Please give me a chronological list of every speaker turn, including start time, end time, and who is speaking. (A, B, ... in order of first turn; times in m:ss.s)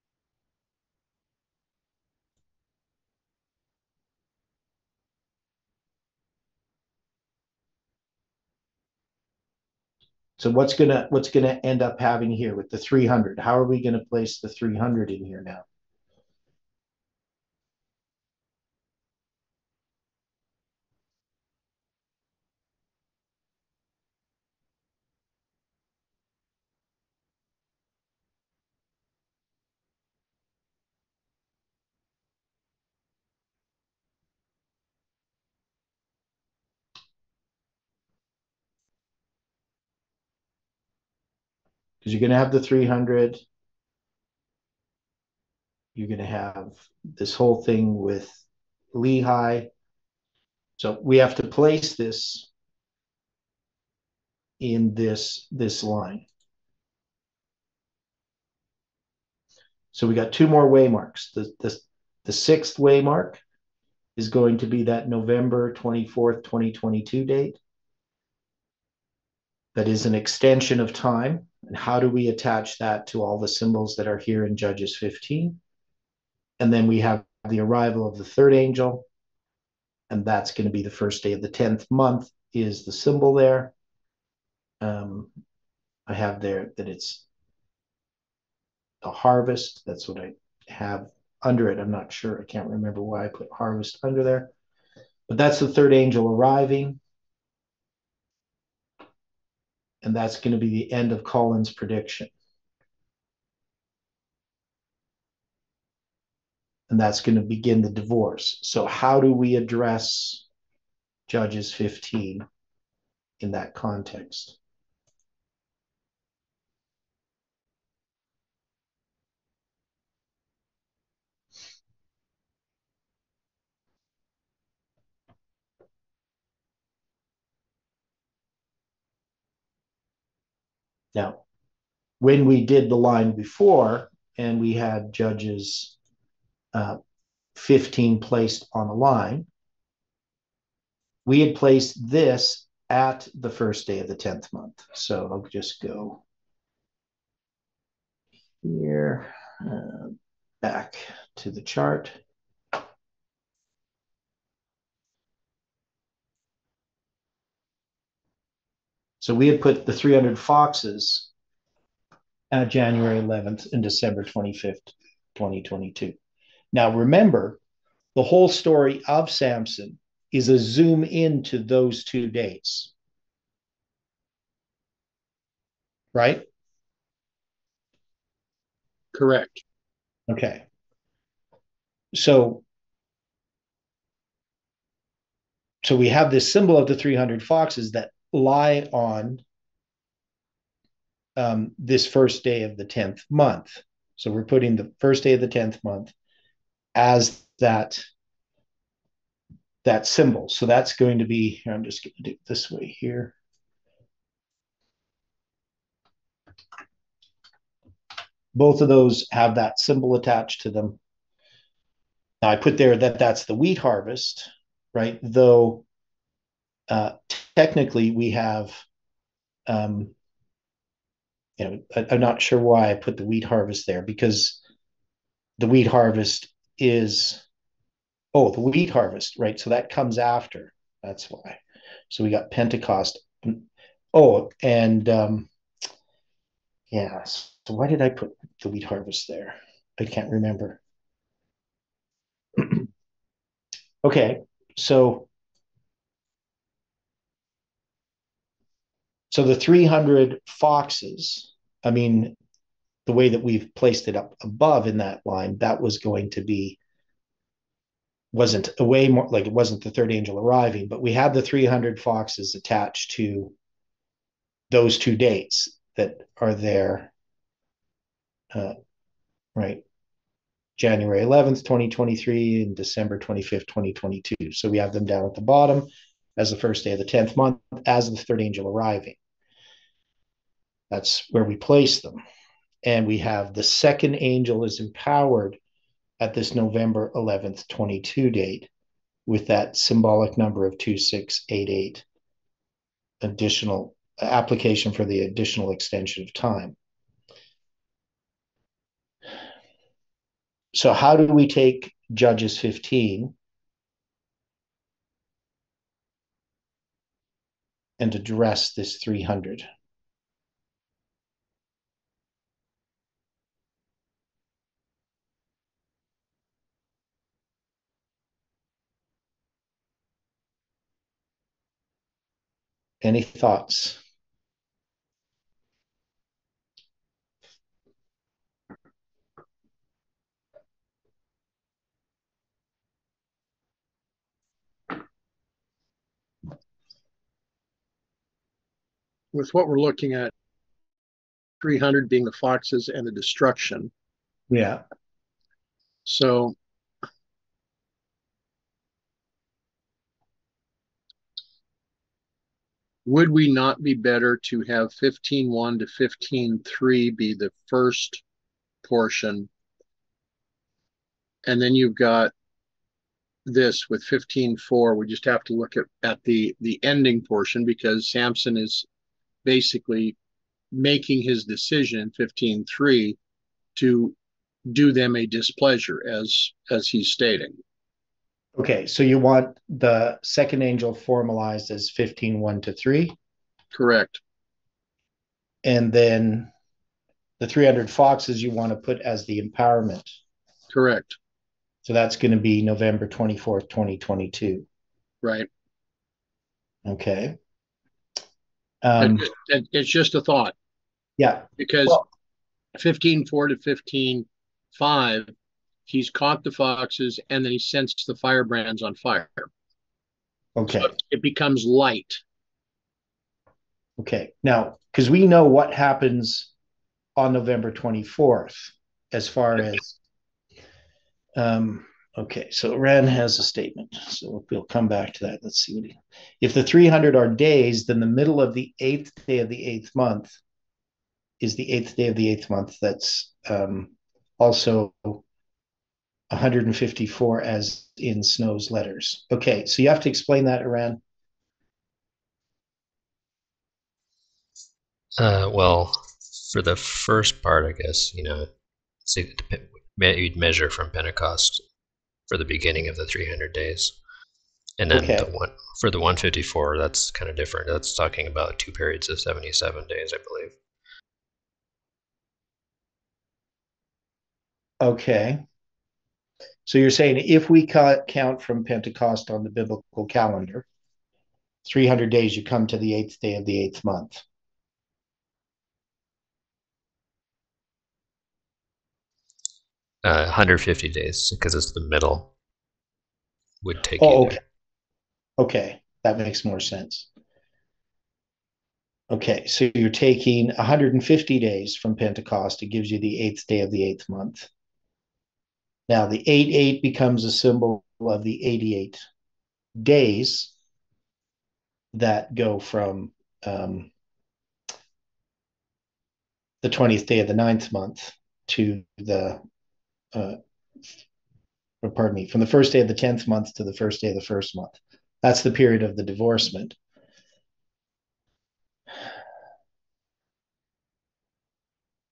0:10.4-0:15.6 A
0:42.0-0:43.4 A
0:45.9-0:48.4 A
0:48.9-0:49.7 A
0:50.8-0:52.5 A
0:54.6-0:56.2 A
0:59.9-1:03.4 A
1:04.2-1:07.6 A
1:09.7-1:15.6 A
1:16.6-1:19.0 A
1:20.1-1:23.7 A
1:24.8-1:25.3 A
1:26.1-1:27.2 A
1:29.0-1:34.5 A
1:35.3-1:37.0 A
1:40.0-1:42.3 A
1:46.9-1:50.4 A
1:51.3-1:52.4 A
1:53.4-1:54.6 A
2:11.1-2:11.4 A
2:12.2-2:15.9 A
2:16.7-2:17.0 A
2:17.5-2:19.5 A
2:21.2-2:26.2 A
2:28.6-2:32.2 A
2:39.2-2:41.3 A
2:42.5-2:46.2 A
2:46.7-2:47.6 A
2:48.1-2:52.9 A
2:56.1-2:56.4 A
2:59.1-2:59.6 B
3:00.3-3:00.6 A
3:02.1-3:02.6 A
3:05.8-3:09.4 A
3:11.4-3:16.1 A
3:16.9-3:18.0 A
3:19.8-3:23.3 A
3:28.5-3:31.0 A
3:32.4-3:35.8 A
3:36.9-3:38.8 A
3:39.7-3:40.1 A
3:41.6-3:44.6 A
3:45.6-3:47.4 A
3:48.3-3:55.5 A
3:56.9-4:00.8 A
4:02.6-4:02.8 A
4:04.0-4:05.3 A
4:09.3-4:12.4 A
4:13.0-4:16.8 A
4:18.3-4:23.5 A
4:24.7-4:27.1 A
4:29.6-4:29.8 A
4:30.8-4:39.2 A
4:40.9-4:42.2 A
4:42.8-4:45.6 A
4:46.2-4:48.7 A
4:49.3-4:52.0 A
4:53.2-4:56.8 A
5:00.7-5:03.3 A
5:08.0-5:09.6 A
5:23.0-5:24.0 A
5:39.3-5:40.3 B
5:41.6-5:43.9 B
5:44.5-5:44.8 A
5:46.0-5:46.5 B
5:53.0-5:58.2 B
5:58.8-5:59.5 B
6:01.4-6:02.3 B
6:03.4-6:08.8 B
6:09.4-6:10.1 B
6:10.7-6:13.2 B
6:13.8-6:14.1 B
6:14.6-6:17.6 B
6:18.6-6:23.2 A
6:23.7-6:24.2 B
6:25.6-6:26.5 A
6:27.4-6:30.1 A
6:30.7-6:31.2 B
6:31.8-6:34.6 A
6:35.2-6:35.5 B
6:36.8-6:37.4 A
6:38.8-6:39.3 A
6:39.0-6:40.5 B
6:41.2-6:42.0 A
6:41.6-6:42.0 B
6:42.8-6:45.3 B
6:45.9-6:49.5 B
6:50.6-6:50.9 A
6:50.7-6:52.2 B
6:54.0-6:56.5 A
6:57.2-7:00.0 A
7:01.4-7:10.4 A
7:11.4-7:15.2 A
7:16.3-7:21.0 A
7:25.2-7:26.0 C
7:26.5-7:28.5 C
7:29.1-7:31.6 C
7:32.3-7:33.9 C
7:34.8-7:40.5 C
7:34.9-7:35.3 A
7:44.8-7:45.4 A
7:46.6-7:50.6 A
7:51.6-7:54.2 A
8:00.0-8:02.3 C
8:03.6-8:04.4 C
8:04.0-8:04.4 A
8:05.4-8:07.1 A
8:09.1-8:14.5 A
8:15.9-8:19.0 A
8:19.8-8:20.5 A
8:21.9-8:23.9 A
8:26.6-8:29.4 A
8:31.8-8:36.8 A